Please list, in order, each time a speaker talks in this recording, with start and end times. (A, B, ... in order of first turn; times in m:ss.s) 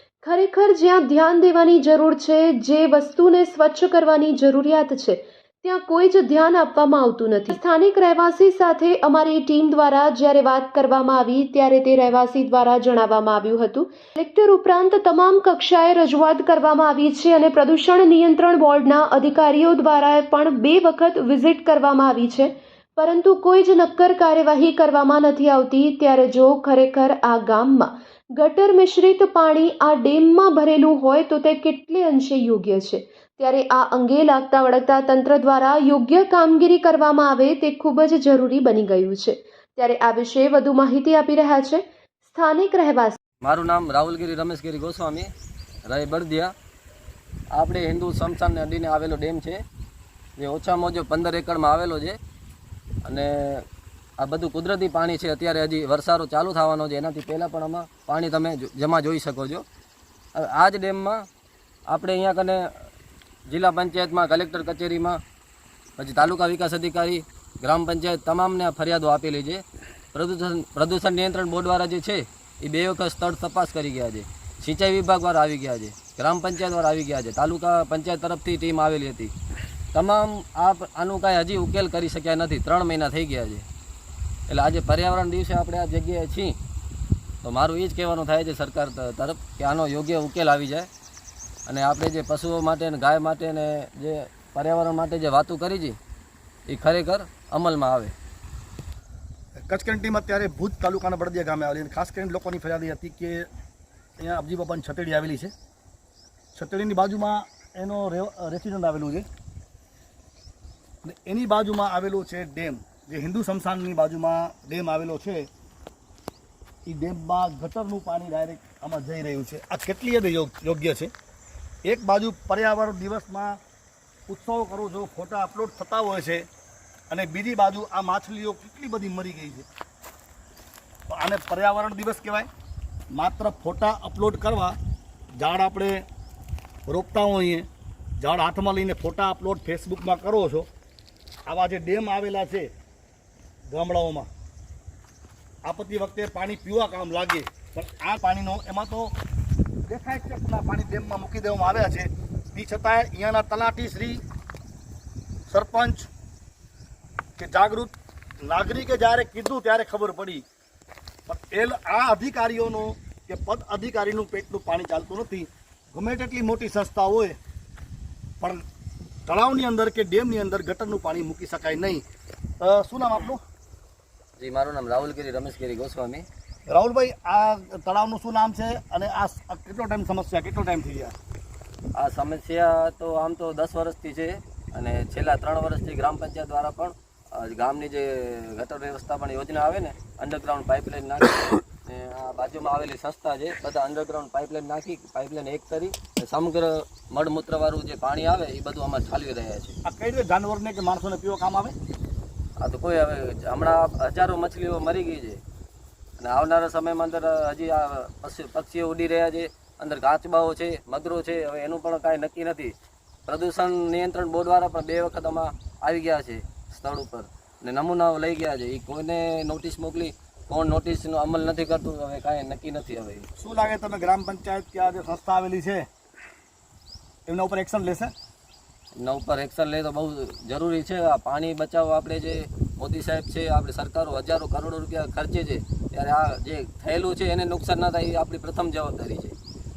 0:00.2-0:43.2 A
0:43.4-0:45.3 B
0:45.9-0:46.5 B
0:47.5-0:49.6 B
0:50.4-0:52.2 B
0:53.0-0:53.6 B
0:54.2-0:59.6 B
1:00.3-1:01.3 B
1:01.9-1:02.7 B
1:03.5-1:05.2 B
1:06.0-1:09.6 B
1:10.1-1:19.3 B
1:19.9-1:23.6 B
1:24.5-1:26.6 B
1:27.4-1:30.9 B
1:31.7-1:36.0 B
1:36.7-1:38.1 B
1:39.7-1:43.5 C
1:44.2-1:45.5 C
1:46.5-1:49.3 C
1:51.0-1:55.5 C
1:56.8-2:01.1 C
2:01.8-2:03.6 C
2:04.3-2:06.5 C
2:07.1-2:09.7 C
2:11.1-2:12.5 C
2:13.1-2:14.8 C
2:15.3-2:16.0 C
2:16.9-2:17.7 C
2:18.2-2:20.7 C
2:21.5-2:22.7 C
2:23.7-2:24.3 C
2:25.6-2:29.1 C
2:29.9-2:34.2 C
2:35.5-2:36.1 C
2:37.4-2:40.4 C
2:41.2-2:47.4 C
2:49.2-2:52.0 C
2:52.6-2:53.4 C
2:54.4-2:56.2 B
2:56.7-3:01.1 C
3:02.0-3:19.8 B
3:19.8-3:21.8 C
3:22.6-3:25.4 B
3:26.2-3:32.7 B
3:33.3-3:43.3 B
3:43.4-3:45.9 C
3:47.2-3:48.1 C
3:49.0-3:59.4 B